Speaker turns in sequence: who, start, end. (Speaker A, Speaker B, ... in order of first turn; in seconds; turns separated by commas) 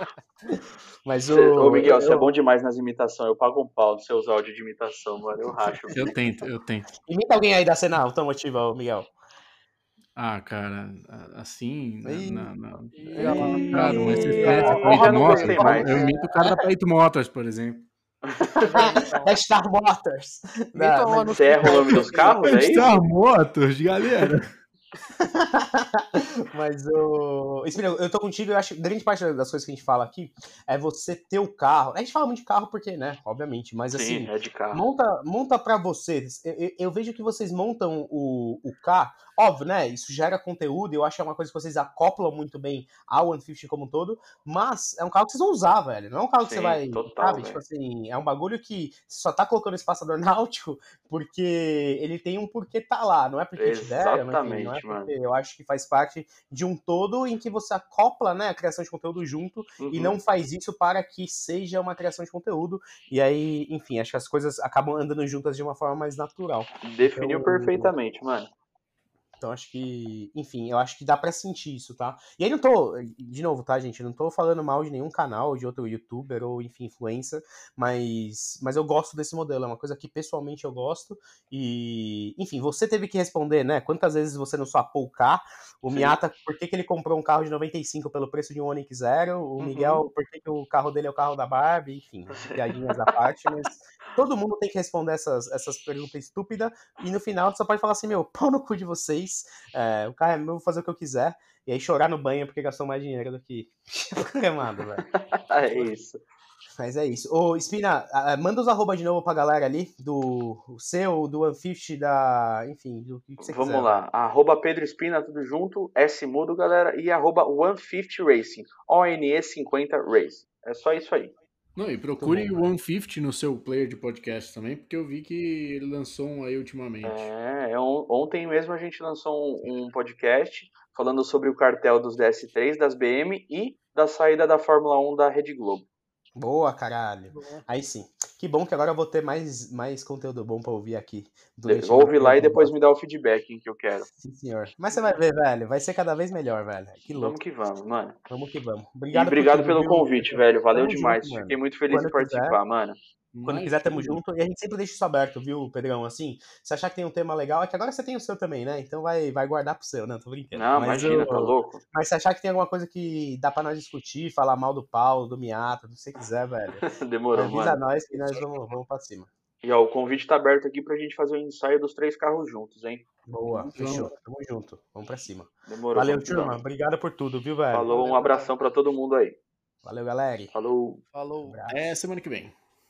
Speaker A: 0.5-2.3, Speaker B: 1.3-6.1, Speaker A: 5.4-6.1, Speaker C: 5.9-6.9, Speaker A: 7.0-9.1, Speaker C: 10.2-17.9, Speaker A: 12.0-12.5, Speaker D: 12.9-15.9, Speaker A: 13.1-16.6, Speaker B: 13.6-16.1, Speaker B: 18.2-18.5, Speaker A: 18.4-23.0, Speaker D: 18.6-19.4, Speaker D: 20.7-22.7, Speaker B: 21.3-22.9, Speaker C: 22.4-24.5, Speaker A: 25.2-67.9, Speaker B: 33.9-34.8, Speaker B: 46.4-47.6, Speaker B: 53.6-55.1, Speaker B: 59.8-60.1, Speaker B: 66.8-68.5, Speaker A: 69.4-105.0, Speaker B: 85.9-86.1, Speaker B: 89.6-90.0, Speaker B: 92.3-93.1, Speaker B: 105.1-106.2, Speaker A: 106.8-114.0, Speaker B: 113.4-121.3, Speaker C: 121.8-127.3, Speaker A: 122.2-122.7, Speaker B: 127.0-135.8, Speaker A: 136.3-142.7, Speaker D: 137.3-137.7, Speaker B: 141.6-144.1, Speaker A: 144.2-147.4, Speaker B: 147.1-148.2, Speaker A: 148.3-152.6, Speaker B: 149.1-153.0, Speaker C: 153.3-154.2, Speaker A: 153.4-166.8, Speaker B: 160.5-161.8, Speaker B: 166.8-167.8, Speaker A: 167.3-169.3, Speaker B: 169.6-173.0, Speaker A: 173.3-177.9, Speaker D: 173.5-174.1, Speaker C: 173.7-174.1, Speaker B: 175.7-176.6, Speaker B: 177.7-179.4, Speaker D: 177.8-178.5, Speaker A: 179.8-180.5, Speaker B: 180.5-181.0, Speaker D: 181.1-181.6, Speaker A: 181.4-181.9, Speaker C: 181.7-182.5